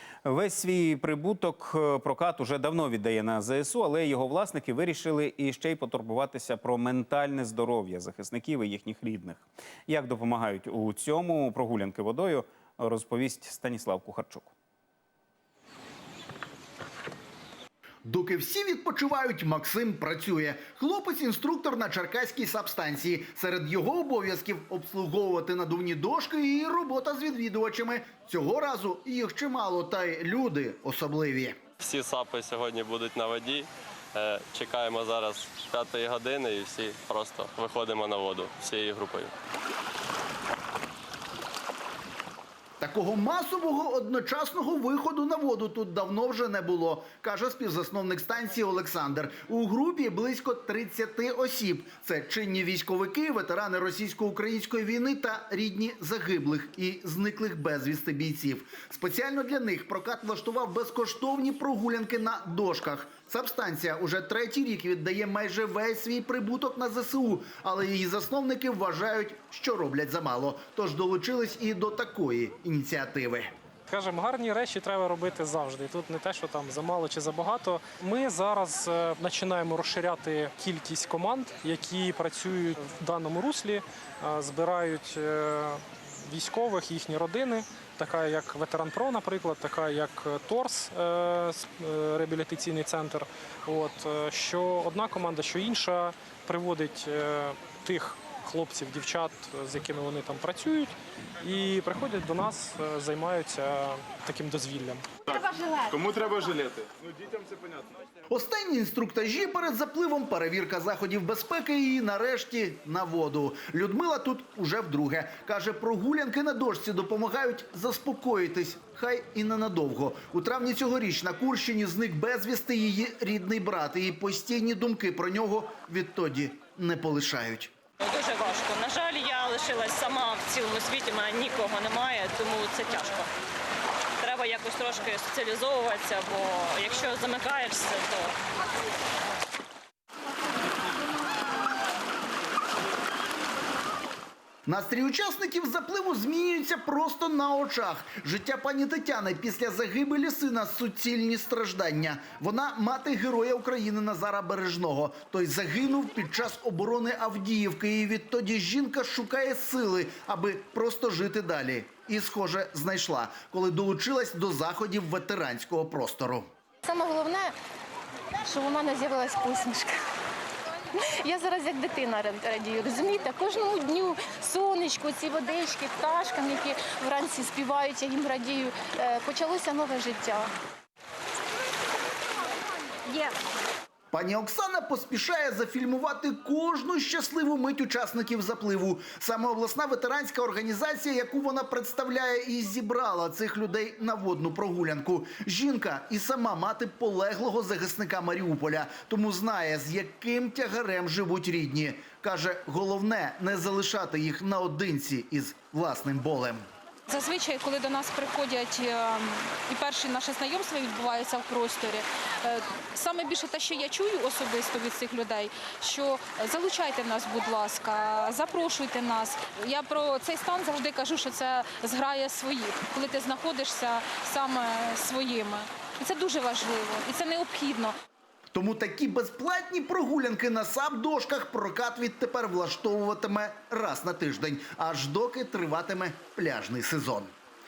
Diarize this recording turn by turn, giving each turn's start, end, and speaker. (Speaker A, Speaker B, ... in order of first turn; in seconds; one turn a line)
Speaker A: 0.2-14.5
Speaker B: 18.1-31.6
Speaker C: 31.8-39.3
Speaker B: 42.8-73.5
Speaker D: 73.9-105.0
Speaker E: 105.9-107.8
Speaker B: 108.3-127.7
Speaker F: 128.0-133.3
Speaker F: 134.2-138.3
Speaker B: 144.7-166.5
Speaker G: 166.8-167.5
Speaker G: 168.4-170.0
Speaker G: 170.9-180.5
Speaker B: 184.1-206.6
Speaker H: 207.1-227.9
Speaker B: 228.5-237.3